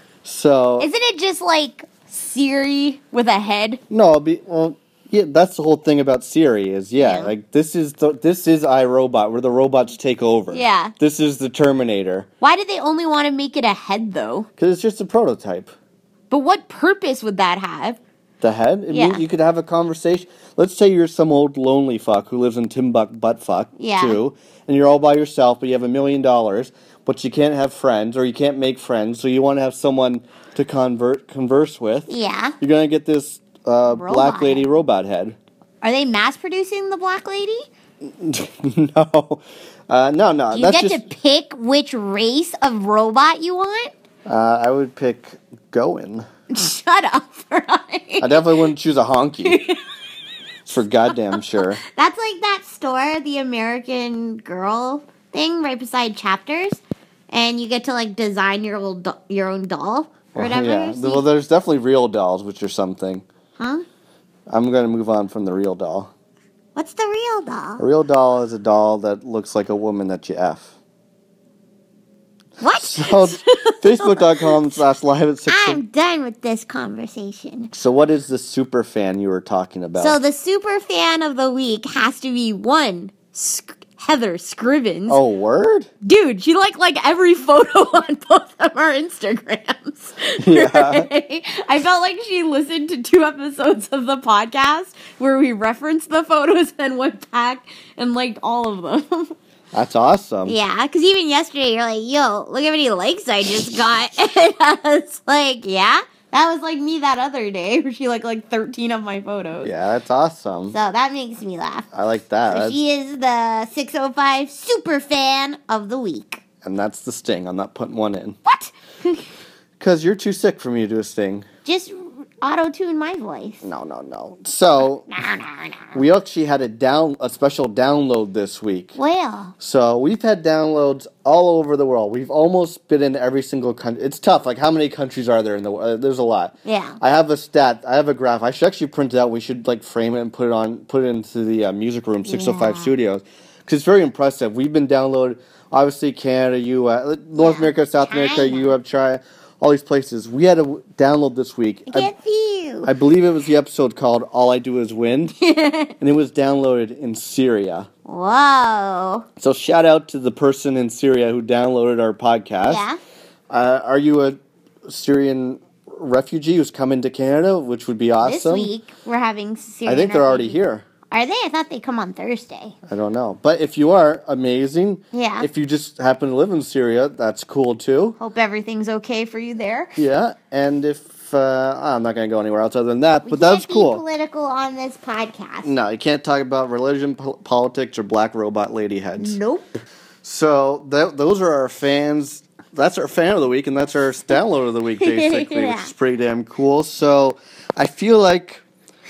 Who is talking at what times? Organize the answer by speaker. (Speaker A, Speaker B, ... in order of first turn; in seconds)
Speaker A: 0.2-0.9, 3.9-12.3, 14.6-15.7, 18.4-35.4, 38.0-41.0, 44.2-46.3, 48.2-49.6, 50.7-51.8, 60.3-63.2, 64.5-66.1, 67.8-70.7, 72.7-75.8, 77.7-80.2, 85.1-85.9, 90.4-91.1, 99.7-100.6, 109.6-110.8, 111.9-112.8, 116.6-118.4, 119.8-121.5, 123.6-125.1, 125.9-128.9, 129.6-152.1, 152.8-155.3, 156.0-157.9, 159.4-162.8, 163.5-168.7, 169.8-170.8, 172.9-178.2, 179.9-184.0, 185.6-189.4, 190.2-198.6
Speaker B: 0.8-3.8, 7.0-7.3, 10.5-10.9, 12.4-14.5, 16.3-18.0, 18.9-19.2, 23.8-24.2, 32.1-32.5, 33.9-34.7, 35.8-37.6, 40.5-43.9, 46.5-48.4, 49.4-49.8, 51.3-61.2, 63.6-63.8, 66.7-67.8, 72.6-74.6, 75.5-77.7, 80.0-85.2, 86.0-99.3, 100.5-109.7, 110.7-111.9, 112.5-116.4, 118.5-119.2, 121.6-123.6, 125.1-126.0, 128.9-129.5, 136.6-137.0, 142.2-142.9, 147.4-148.7, 151.9-152.9, 155.4-155.9, 158.1-159.2, 162.6-163.0, 168.2-172.7, 175.1-175.5, 178.2-179.9, 183.2-185.7, 189.2-189.7, 195.0-195.9